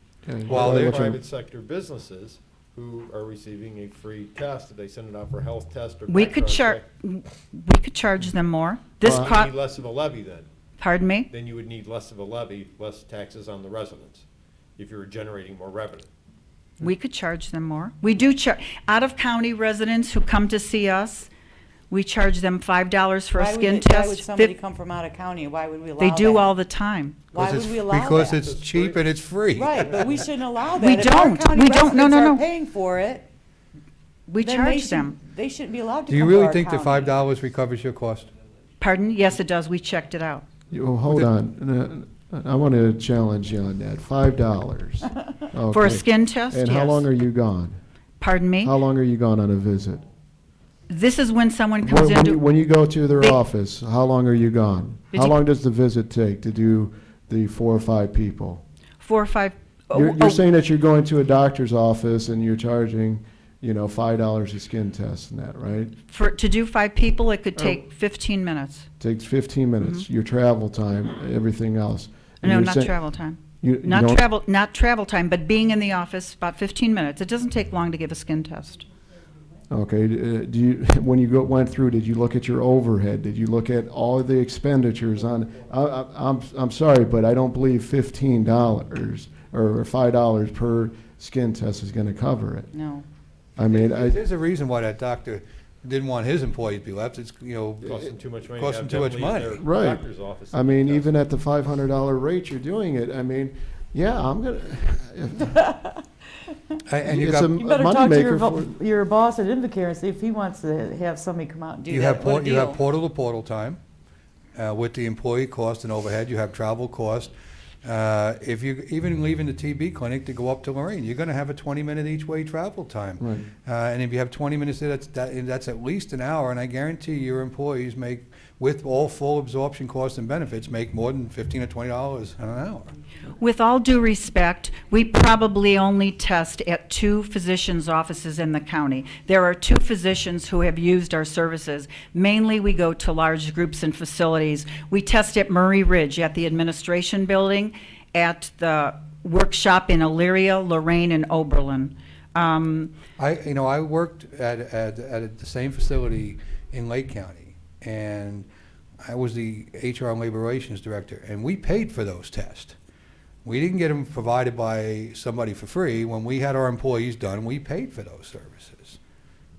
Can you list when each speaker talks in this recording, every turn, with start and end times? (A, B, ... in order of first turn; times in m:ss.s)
0:00.2-0:01.2 A
0:00.5-0:01.1 B
0:00.5-0:06.8 C
0:06.1-0:09.5 D
0:09.0-0:10.4 C
0:09.0-0:09.3 A
0:10.8-0:11.3 D
0:11.3-0:14.2 C
0:14.8-0:16.1 C
0:16.8-0:21.3 D
0:21.9-0:24.5 D
0:23.3-0:26.5 E
0:26.0-0:27.3 D
0:27.3-0:28.4 E
0:27.3-0:30.2 B
0:28.2-0:29.0 C
0:29.5-0:33.3 E
0:29.8-0:30.1 C
0:30.8-0:32.4 D
0:34.3-0:35.2 D
0:34.4-0:37.1 E
0:36.1-0:38.3 B
0:38.8-0:40.4 D
0:40.7-0:47.8 A
0:45.7-0:47.1 D
0:48.2-0:48.7 D
0:48.6-0:50.0 A
0:50.9-0:52.4 D
0:51.8-0:58.6 A
0:55.1-0:55.4 D
0:59.0-1:00.4 D
0:59.9-1:05.9 A
1:06.1-1:08.8 D
1:09.0-1:13.0 A
1:09.8-1:10.0 D
1:12.4-1:18.9 D
1:13.6-1:14.2 A
1:19.7-1:32.7 A
1:32.7-1:33.0 E
1:33.6-1:34.2 A
1:33.7-1:39.6 B
1:37.8-1:41.1 C
1:39.6-1:45.6 A
1:45.5-1:46.1 E
1:46.8-1:47.6 B
1:47.0-1:48.7 A
1:47.6-1:52.8 E
1:51.9-1:53.8 B
1:54.6-1:57.3 B
1:57.8-2:12.9 B
2:03.2-2:03.5 A
2:13.4-2:32.9 D
2:33.2-2:38.4 B
2:39.0-2:42.8 B
2:43.4-2:49.0 B